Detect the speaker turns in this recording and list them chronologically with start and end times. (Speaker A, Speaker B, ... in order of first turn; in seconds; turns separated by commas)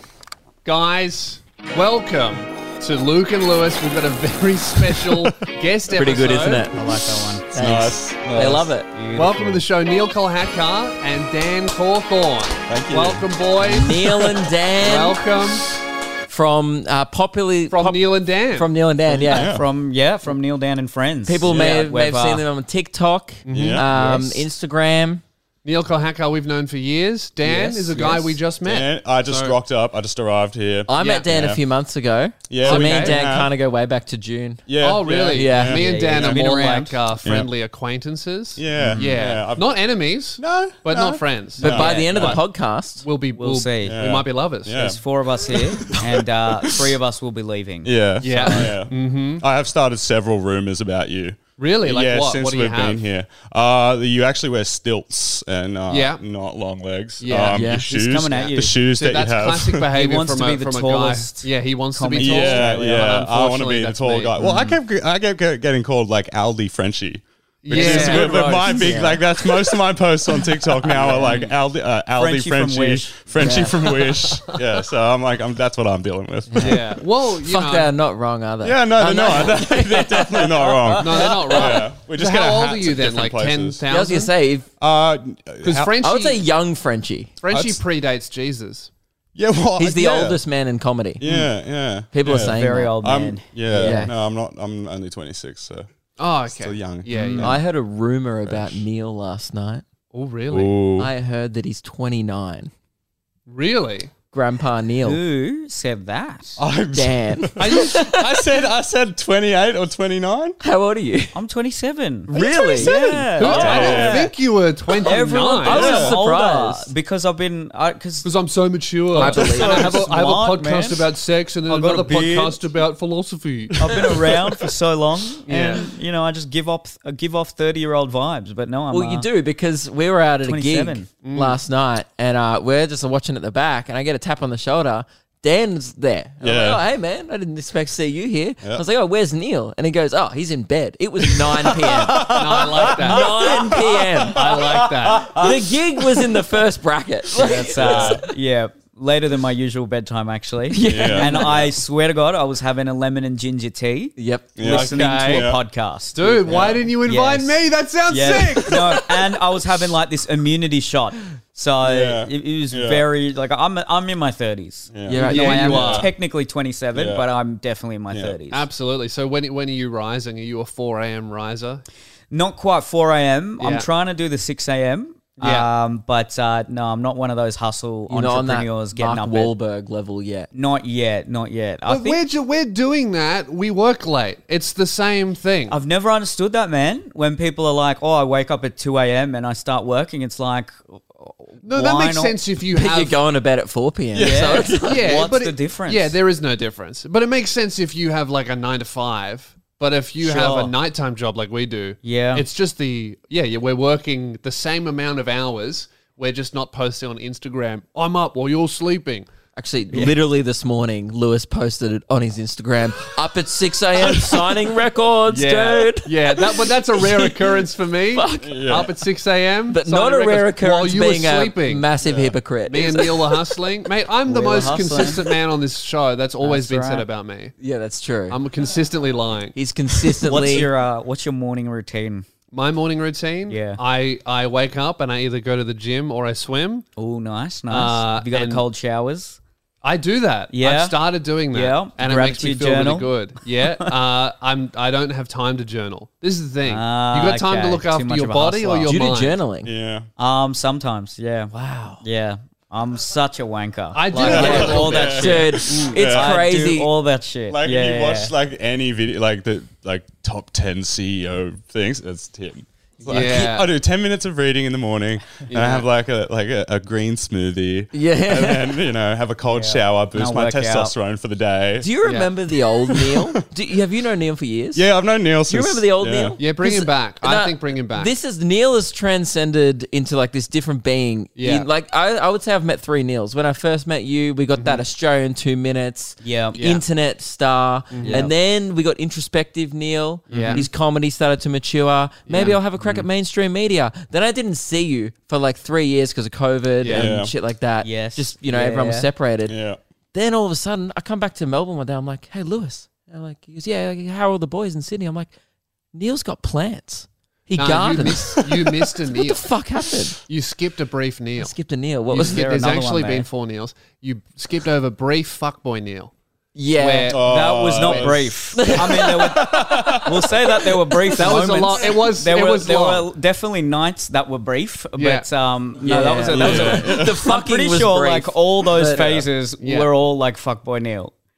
Speaker A: 0.6-6.7, Speaker B: 5.0-5.3, Speaker C: 5.9-6.7, Speaker D: 6.7-7.5, Speaker C: 7.5-8.9, Speaker B: 7.5-8.7, Speaker D: 8.9-9.6, Speaker A: 9.1-15.7, Speaker B: 12.7-13.2, Speaker C: 13.6-15.2, Speaker C: 16.3-19.5, Speaker A: 17.7-19.4, Speaker B: 19.3-19.7, Speaker D: 19.3-22.4, Speaker C: 21.2-25.2, Speaker B: 21.4-21.8, Speaker A: 23.4-24.4, Speaker B: 23.5-23.9, Speaker A: 25.6-29.6, Speaker C: 27.4-28.4, Speaker B: 28.6-31.6, Speaker C: 30.9-34.7, Speaker A: 31.0-31.2, Speaker B: 32.5-33.5, Speaker A: 32.6-33.2, Speaker B: 34.7-36.4, Speaker A: 34.8-42.4, Speaker C: 35.3-35.9, Speaker D: 35.7-37.0, Speaker B: 37.2-37.5, Speaker B: 38.5-39.8, Speaker D: 38.8-39.1, Speaker B: 40.4-42.4, Speaker C: 41.6-43.0, Speaker A: 43.0-44.8, Speaker D: 43.3-44.0, Speaker B: 43.8-46.9, Speaker D: 44.7-48.7, Speaker B: 47.8-59.9, Speaker A: 48.2-49.4, Speaker A: 51.6-53.0, Speaker A: 55.9-56.2, Speaker A: 57.2-64.7, Speaker C: 57.5-57.9, Speaker D: 57.9-58.8, Speaker D: 59.9-63.3, Speaker B: 62.2-77.0, Speaker A: 67.6-69.0, Speaker D: 67.7-69.2, Speaker A: 70.8-71.5, Speaker D: 72.1-73.2, Speaker C: 73.4-73.8, Speaker A: 73.4-74.9, Speaker C: 76.5-81.8, Speaker A: 76.6-77.9, Speaker B: 78.6-83.8, Speaker A: 81.0-84.3, Speaker C: 83.9-84.7, Speaker B: 84.8-85.9, Speaker A: 85.6-86.4, Speaker C: 86.0-87.3, Speaker A: 87.4-88.9, Speaker B: 87.5-87.8, Speaker B: 89.3-90.4, Speaker C: 89.8-91.2, Speaker B: 91.2-95.9, Speaker C: 92.1-92.9, Speaker D: 92.2-94.1, Speaker C: 93.8-94.1, Speaker A: 96.2-97.5, Speaker B: 96.5-97.6, Speaker D: 97.1-97.5, Speaker C: 97.4-99.8, Speaker B: 98.5-98.8, Speaker A: 100.1-100.8, Speaker B: 100.5-101.1, Speaker C: 101.0-102.7, Speaker A: 103.5-104.1, Speaker C: 104.3-105.2, Speaker D: 105.0-106.6, Speaker B: 106.6-110.6, Speaker C: 106.9-108.3, Speaker A: 107.6-108.1, Speaker C: 110.6-111.4, Speaker D: 111.3-114.3, Speaker C: 112.3-114.1, Speaker A: 112.3-115.9, Speaker B: 112.9-114.2, Speaker C: 115.0-116.9, Speaker D: 115.0-118.3, Speaker B: 115.7-116.2, Speaker A: 118.2-124.3, Speaker C: 119.1-120.0, Speaker D: 119.1-121.1, Speaker D: 121.7-122.6, Speaker D: 123.8-129.3, Speaker A: 125.5-125.8, Speaker C: 128.9-148.2, Speaker D: 130.4-131.1, Speaker A: 131.2-131.6, Speaker B: 136.4-136.8, Speaker B: 141.3-146.3, Speaker A: 142.2-143.5, Speaker A: 144.2-145.4, Speaker D: 147.3-168.7, Speaker B: 147.4-148.2, Speaker C: 150.7-151.5, Speaker B: 150.8-151.7, Speaker C: 154.2-154.6, Speaker B: 154.6-155.6, Speaker A: 154.7-155.5, Speaker A: 156.1-159.1, Speaker B: 156.2-156.9, Speaker B: 161.8-163.1, Speaker B: 164.9-166.1, Speaker C: 165.1-165.8, Speaker A: 165.1-166.1, Speaker B: 166.9-167.2, Speaker B: 168.1-168.4, Speaker A: 168.5-171.8, Speaker D: 172.3-179.5, Speaker A: 173.6-173.9, Speaker A: 175.4-175.7, Speaker C: 178.1-180.5, Speaker D: 180.5-182.2, Speaker A: 181.9-185.8, Speaker D: 185.7-192.4, Speaker A: 191.6-193.2, Speaker C: 192.7-195.0, Speaker B: 194.1-195.0, Speaker D: 194.1-196.2, Speaker A: 194.8-209.3, Speaker D: 200.2-200.7, Speaker D: 202.0-202.4, Speaker C: 209.6-219.0, Speaker A: 215.3-221.8, Speaker B: 218.4-218.9, Speaker C: 219.7-223.7, Speaker B: 222.0-222.4, Speaker A: 222.7-227.5, Speaker D: 224.2-225.2, Speaker C: 224.6-225.2, Speaker D: 226.4-227.1, Speaker C: 227.6-228.4, Speaker A: 228.3-230.2, Speaker C: 229.5-230.7, Speaker D: 230.2-232.2, Speaker A: 232.5-236.9, Speaker D: 233.5-233.8, Speaker D: 237.0-239.4, Speaker A: 237.7-238.6, Speaker A: 239.8-249.4, Speaker D: 240.5-243.1, Speaker D: 246.7-248.9, Speaker C: 248.8-249.7, Speaker B: 249.6-250.1, Speaker D: 250.2-258.3, Speaker C: 251.5-252.0, Speaker A: 253.9-255.9, Speaker C: 254.2-256.9, Speaker B: 254.2-256.4, Speaker B: 257.5-271.9, Speaker A: 263.1-263.7, Speaker C: 263.1-263.4, Speaker A: 265.5-265.9, Speaker C: 267.9-268.9, Speaker D: 269.5-270.9, Speaker C: 271.8-274.9, Speaker A: 272.0-272.3, Speaker B: 274.7-276.4, Speaker C: 275.5-299.6, Speaker A: 276.4-278.1, Speaker A: 281.4-281.7, Speaker A: 284.5-284.8, Speaker D: 286.2-286.6, Speaker A: 286.6-286.8, Speaker A: 287.9-288.3, Speaker D: 288.0-288.3, Speaker A: 290.3-290.7, Speaker D: 290.3-290.7, Speaker A: 292.3-292.6, Speaker A: 296.8-297.1, Speaker B: 296.9-297.3, Speaker D: 297.8-299.1, Speaker B: 299.5-299.8, Speaker C: 300.1-305.3, Speaker C: 305.9-310.2, Speaker A: 307.6-309.5, Speaker A: 310.2-311.5, Speaker C: 311.4-312.4, Speaker A: 312.1-316.1, Speaker D: 312.1-313.3, Speaker C: 316.5-317.2, Speaker A: 316.8-317.2, Speaker B: 317.1-320.3, Speaker D: 317.2-331.1, Speaker A: 317.8-318.1, Speaker C: 318.5-319.5, Speaker A: 321.2-323.1, Speaker A: 325.0-325.3, Speaker C: 325.8-329.0, Speaker B: 326.3-327.2, Speaker B: 328.9-329.3, Speaker A: 329.6-329.9